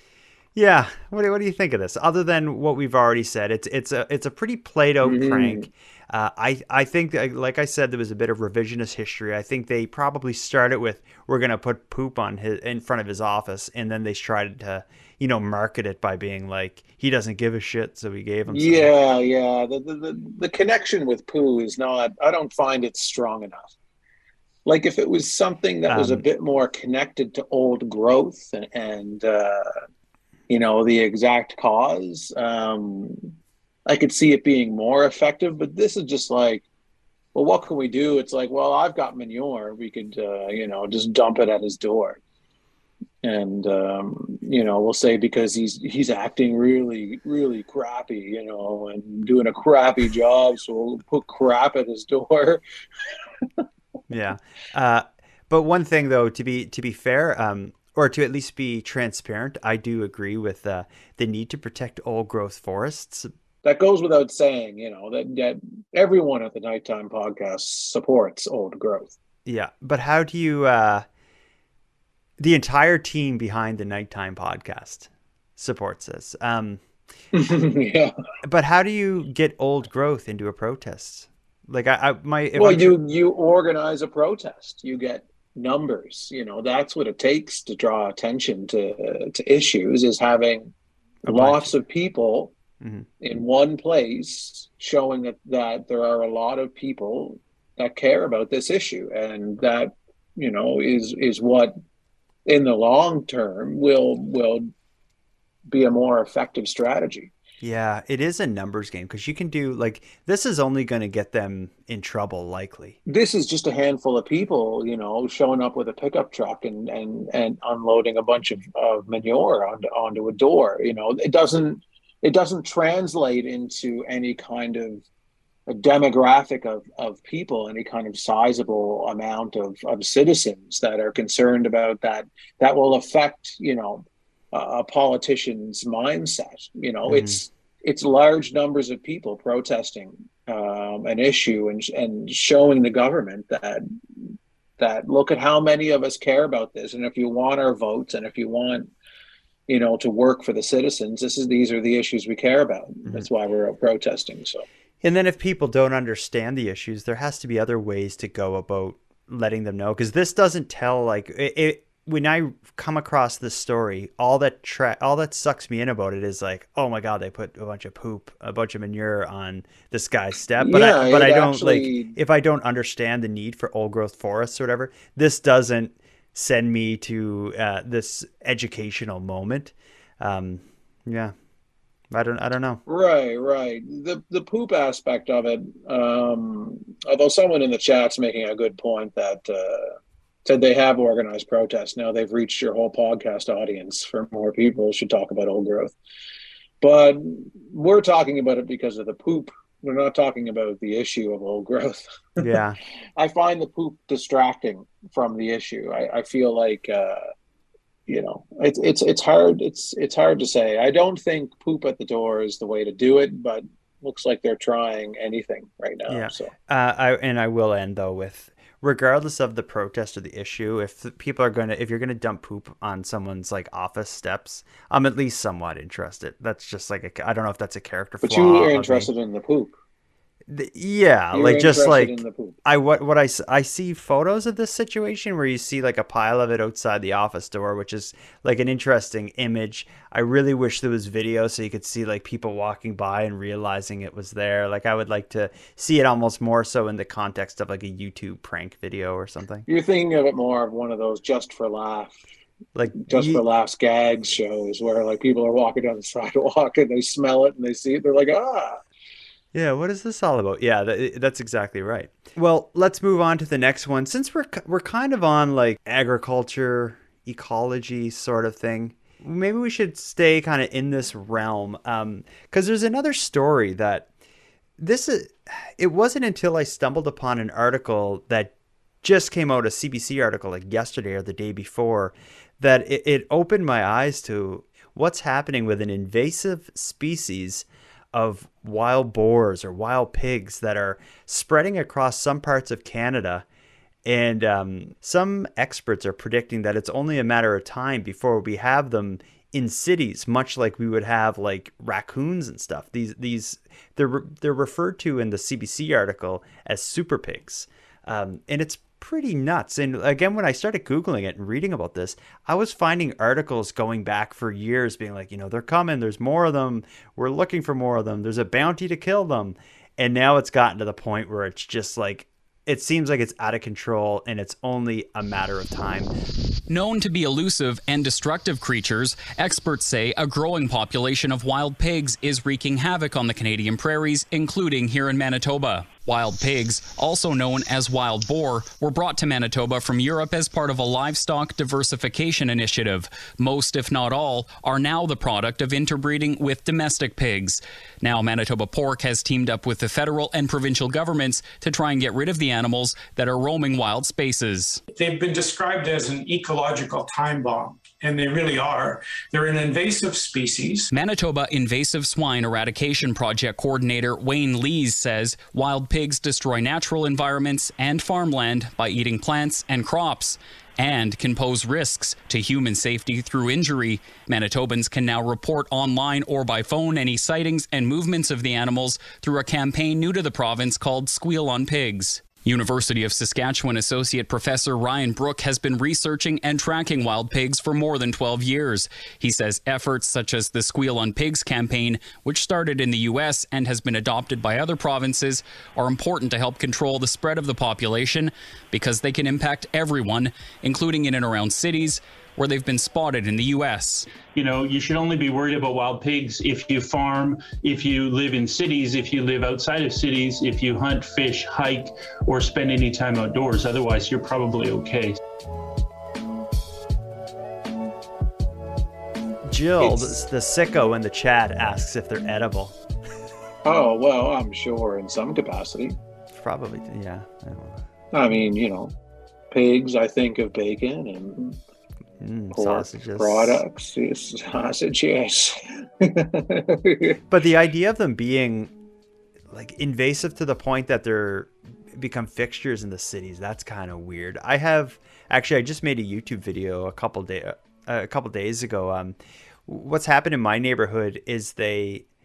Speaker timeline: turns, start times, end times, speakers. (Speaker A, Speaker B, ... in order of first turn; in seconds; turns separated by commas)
Speaker A: 0.5-18.9, Speaker B: 5.0-5.7, Speaker B: 18.5-23.7, Speaker B: 24.6-29.7, Speaker A: 25.9-26.2, Speaker B: 30.5-33.3, Speaker B: 33.9-36.6, Speaker B: 37.3-42.2, Speaker B: 43.2-53.6, Speaker A: 54.1-63.3, Speaker B: 63.6-69.1, Speaker A: 69.4-71.0, Speaker A: 72.4-76.8, Speaker B: 77.3-78.1, Speaker A: 78.4-83.0, Speaker B: 82.5-90.7, Speaker B: 91.2-92.5, Speaker A: 91.2-91.8, Speaker A: 92.8-93.1, Speaker B: 93.2-101.8, Speaker B: 102.5-104.7, Speaker B: 105.7-107.3, Speaker A: 107.6-113.0, Speaker B: 113.0-125.0, Speaker B: 125.7-143.8, Speaker A: 137.1-137.4, Speaker B: 144.8-148.9, Speaker B: 149.7-154.6, Speaker A: 155.0-181.3, Speaker B: 170.6-172.2, Speaker A: 182.1-182.8, Speaker B: 182.8-195.9, Speaker B: 196.8-202.5, Speaker A: 202.4-202.8, Speaker B: 203.2-207.2, Speaker B: 208.1-216.5, Speaker A: 216.1-229.1, Speaker B: 228.2-229.8, Speaker A: 230.5-249.7, Speaker B: 231.3-232.6, Speaker B: 249.7-252.2, Speaker A: 252.7-253.4, Speaker B: 253.0-258.8, Speaker A: 259.5-274.1, Speaker A: 274.8-293.4, Speaker A: 294.0-326.1, Speaker C: 326.7-354.8, Speaker D: 354.9-360.9, Speaker C: 360.9-404.1, Speaker E: 404.3-415.1, Speaker A: 419.5-422.8, Speaker B: 419.8-420.1, Speaker B: 423.6-426.0, Speaker A: 426.3-427.8, Speaker B: 428.1-428.9, Speaker B: 429.5-431.6, Speaker A: 432.2-433.6, Speaker B: 432.5-437.2, Speaker A: 437.3-438.7, Speaker A: 439.5-449.1, Speaker A: 449.7-452.0